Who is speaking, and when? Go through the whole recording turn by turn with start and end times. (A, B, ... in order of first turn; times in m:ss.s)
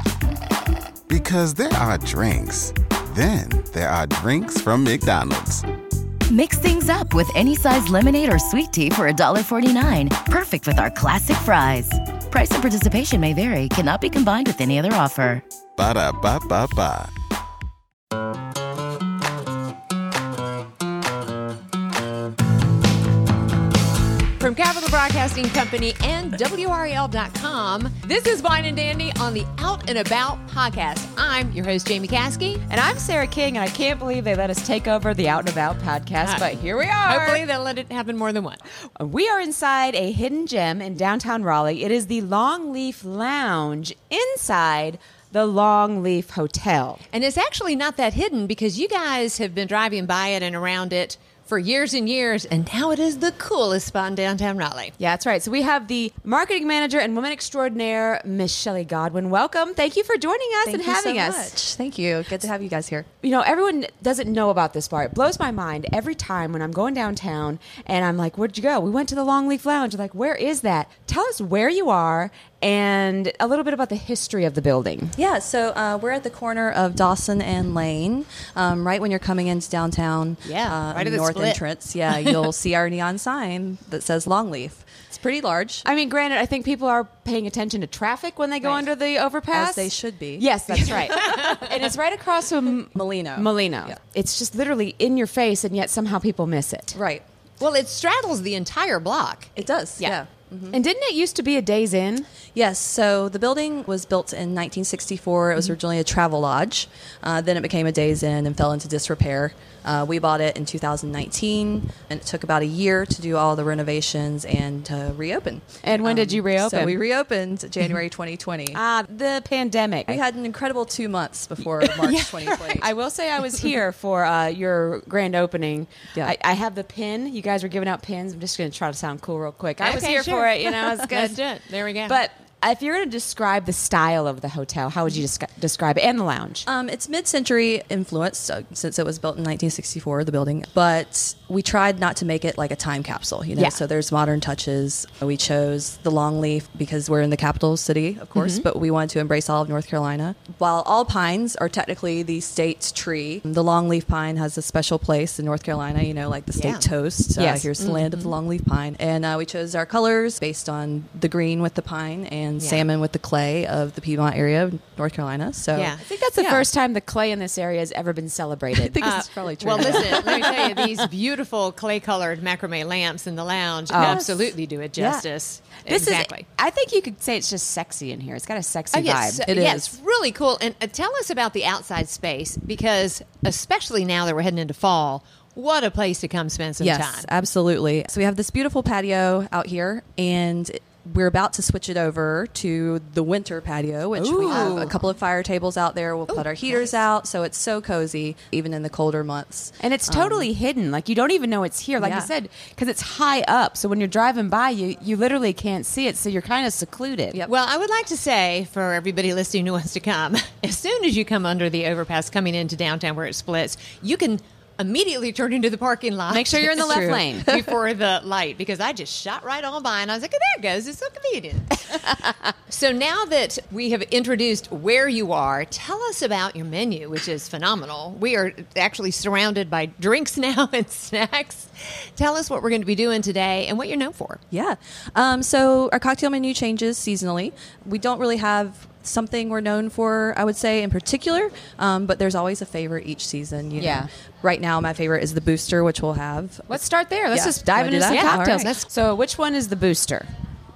0:01.1-0:05.6 A
0:06.3-0:15.4 B
0:15.8-0:17.1 A
0:24.4-0:32.6 C
0:32.7-0:37.4 D
0:36.2-0:36.5 C
0:37.0-0:38.6 C
0:39.0-0:47.0 D
0:47.1-0:54.9 C
0:55.0-1:01.6 D
1:00.6-1:03.1 E
1:03.2-1:15.2 D
1:15.2-1:25.8 E
1:20.4-1:22.5 C
1:25.8-1:37.0 D
1:29.5-1:30.8 E
1:31.2-1:31.6 C
1:32.9-1:34.0 E
1:36.9-1:37.2 E
1:37.6-1:40.2 C
1:39.6-1:40.8 E
1:40.7-1:42.3 D
1:42.5-1:58.8 E
1:55.8-1:57.0 D
1:58.7-2:00.2 D
2:00.1-2:02.9 E
2:01.8-2:02.8 C
2:02.8-2:11.4 D
2:09.8-2:12.2 C
2:12.0-2:16.7 D
2:16.6-2:46.7 E
2:36.5-2:36.9 C
2:37.4-2:37.7 D
2:37.8-2:38.3 C
2:42.6-2:42.8 C
2:45.7-2:46.0 C
2:46.0-2:49.2 D
2:48.7-2:50.5 E
2:49.0-2:56.4 C
2:49.7-2:50.8 D
2:53.9-2:55.2 D
2:55.8-2:59.4 D
2:58.9-3:07.3 C
2:59.4-3:00.0 E
3:06.8-3:20.5 E
3:14.1-3:14.9 D
3:14.5-3:15.0 C
3:16.3-3:17.0 C
3:19.8-3:27.4 D
3:22.0-3:22.3 E
3:27.4-3:42.1 C
3:36.3-3:37.5 D
3:36.9-3:37.2 E
3:42.7-3:54.4 C
3:54.5-4:08.7 E
4:03.8-4:04.1 D
4:06.7-4:10.3 D
4:08.1-4:08.9 C